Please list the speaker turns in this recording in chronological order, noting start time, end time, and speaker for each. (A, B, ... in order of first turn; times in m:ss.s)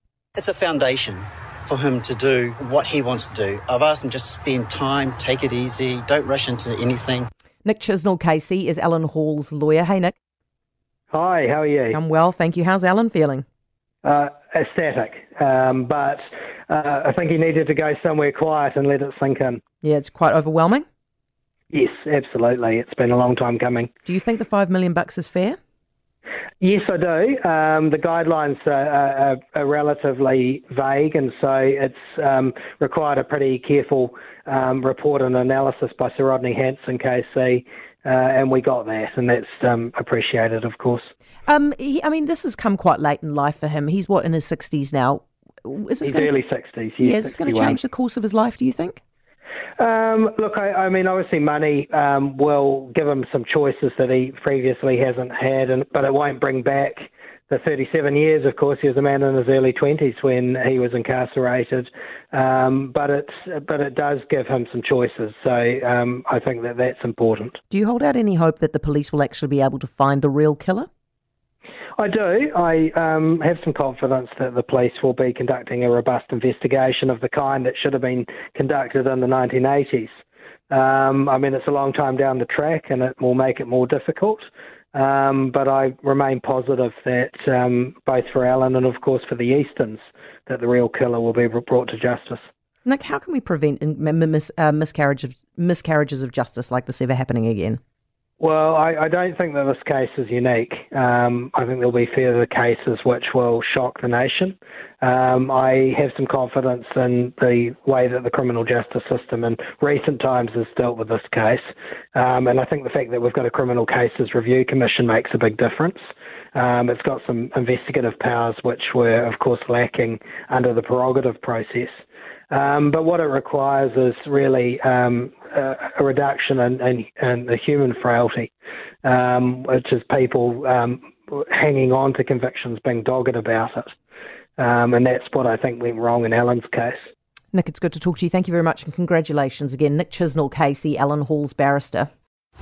0:00.4-0:07.3 A
0:07.6-0:10.2 B
0:11.1-0:12.0 C
0:11.9-0:13.4 B
0:14.0-0:19.6 C
0:19.8-0:20.8 B
0:21.7-0:23.9 C
0:24.0-0:25.6 B
0:26.6-0:41.1 C
0:41.5-0:46.3 B
0:46.0-0:47.8 C
0:47.0-0:49.0 B
0:49.8-1:07.6 C
1:07.7-1:10.9 B
1:12.0-1:20.1 C
1:20.7-1:32.5 C
1:32.8-1:37.8 B
1:38.4-1:56.0 C
1:56.5-2:01.9 C
2:02.5-2:08.5 C
2:09.0-2:13.9 C
2:14.6-2:17.1 C
2:17.5-2:22.1 B